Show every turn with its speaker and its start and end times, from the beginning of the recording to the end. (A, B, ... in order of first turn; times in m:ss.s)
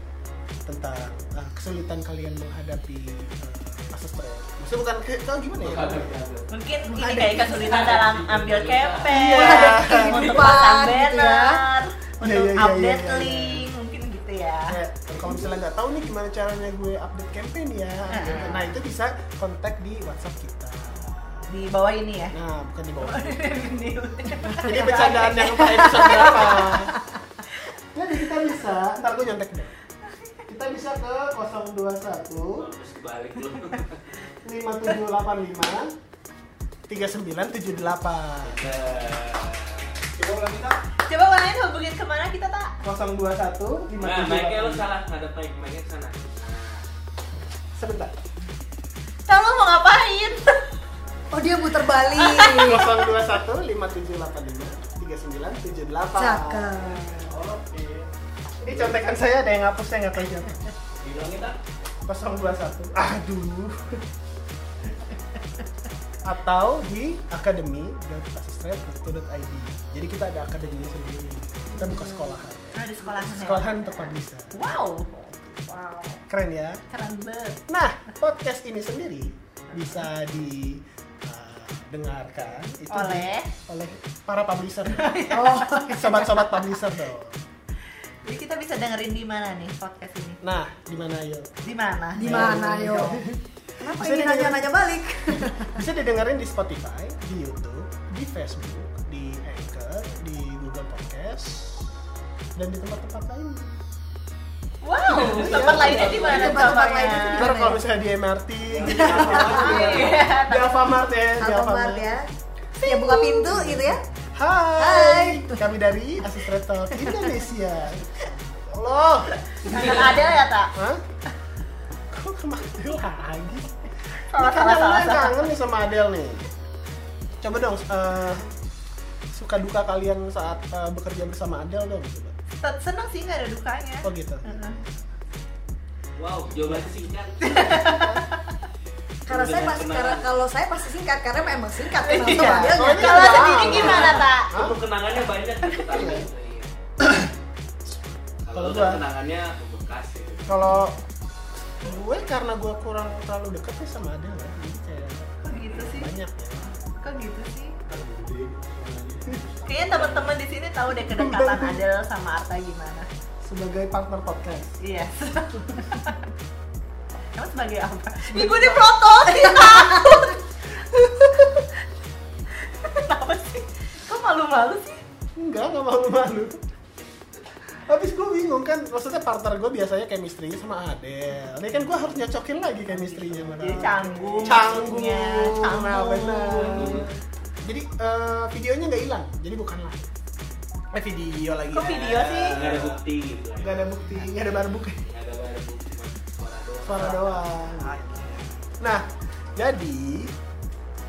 0:00.6-0:06.2 A
0:05.6-0:06.5 B
0:06.5-0:14.8 C
0:06.9-0:07.9 D
0:07.5-0:09.1 B
0:09.1-0:10.7 A
0:09.2-0:11.6 D
0:12.2-0:13.6 A
0:14.7-0:21.5 A
0:18.1-0:18.7 C
0:21.5-0:22.3 C
0:22.3-0:23.6 A
0:23.0-0:26.8 C
0:24.5-0:26.9 A
0:25.4-0:26.9 D
0:27.9-0:29.7 A
0:30.5-0:32.7 A
0:32.6-0:34.2 B
0:34.4-0:35.9 A
0:36.9-0:38.6 A
0:38.4-0:40.0 B
0:40.1-0:40.7 E
0:41.0-0:42.7 C
0:42.8-0:44.9 A
0:44.0-0:46.9 B
0:47.7-0:48.1 A
0:49.3-0:50.6 C
0:51.3-0:52.9 D
0:52.2-0:53.0 C
0:52.6-0:56.9 A
0:56.2-0:57.4 D
0:57.3-0:58.0 E
0:58.6-1:00.6 A
1:01.0-1:01.6 B
1:02.0-1:04.0 A
1:06.2-1:14.6 A
1:11.7-1:12.4 D
1:12.7-1:14.0 C
1:14.5-1:16.2 C
1:16.3-1:16.8 A
1:16.9-1:17.6 C
1:17.7-1:25.2 A
1:19.8-1:20.0 C
1:22.9-1:23.5 C
1:24.9-1:26.8 C
1:25.3-1:26.1 D
1:25.9-1:27.4 A
1:28.2-1:30.4 C
1:30.4-1:31.5 A
1:31.6-1:33.2 C
1:32.1-1:33.2 D
1:32.2-1:34.7 A
1:33.8-1:35.8 D
1:35.3-1:41.9 A
1:42.6-1:43.6 A
1:44.8-1:47.5 C
1:45.1-1:52.1 A
1:45.3-1:46.4 B
1:45.9-1:47.8 D
1:48.8-1:49.9 B
1:48.8-1:50.1 E
1:48.9-1:50.0 D
1:49.1-1:50.9 C
1:51.4-1:52.2 D
1:52.8-1:53.6 C
1:52.8-1:54.0 D
1:53.5-2:01.0 A
1:54.8-1:55.7 D
1:56.2-1:57.4 D
1:59.6-2:00.7 C
2:02.1-2:06.4 A
2:04.3-2:05.5 C
2:07.4-2:08.5 A
2:09.3-2:12.3 A
2:12.6-2:14.8 C
2:14.0-2:15.2 A
2:16.2-2:18.0 B
2:16.5-2:18.2 A
2:17.4-2:18.2 C
2:19.3-2:20.3 B
2:19.3-2:23.6 D
2:21.3-2:21.6 B
2:21.9-2:24.5 C
2:22.3-2:24.8 A
2:23.6-2:26.7 B
2:25.9-2:26.3 A
2:27.0-2:27.3 A
2:28.4-2:30.7 B
2:28.5-2:29.0 A
2:30.5-2:31.0 A
2:31.8-2:36.7 A
2:35.4-2:36.1 C
2:37.0-2:37.8 C
2:37.9-2:40.4 E
2:39.6-2:43.1 C
2:40.9-2:41.8 A
2:43.4-2:44.8 A
2:44.8-2:46.2 C
2:47.3-2:50.4 C
2:48.3-2:50.3 D
2:50.9-2:51.7 A
2:52.6-2:55.0 C
2:55.4-2:56.6 A
2:57.8-3:07.1 A
3:02.9-3:07.1 C
3:06.7-3:07.1 B
3:07.6-3:10.1 A
3:10.9-3:13.0 A
3:11.7-3:12.6 C
3:12.5-3:14.0 B
3:13.6-3:15.0 A
3:15.0-3:17.4 B
3:16.8-3:20.3 A
3:17.0-3:18.6 C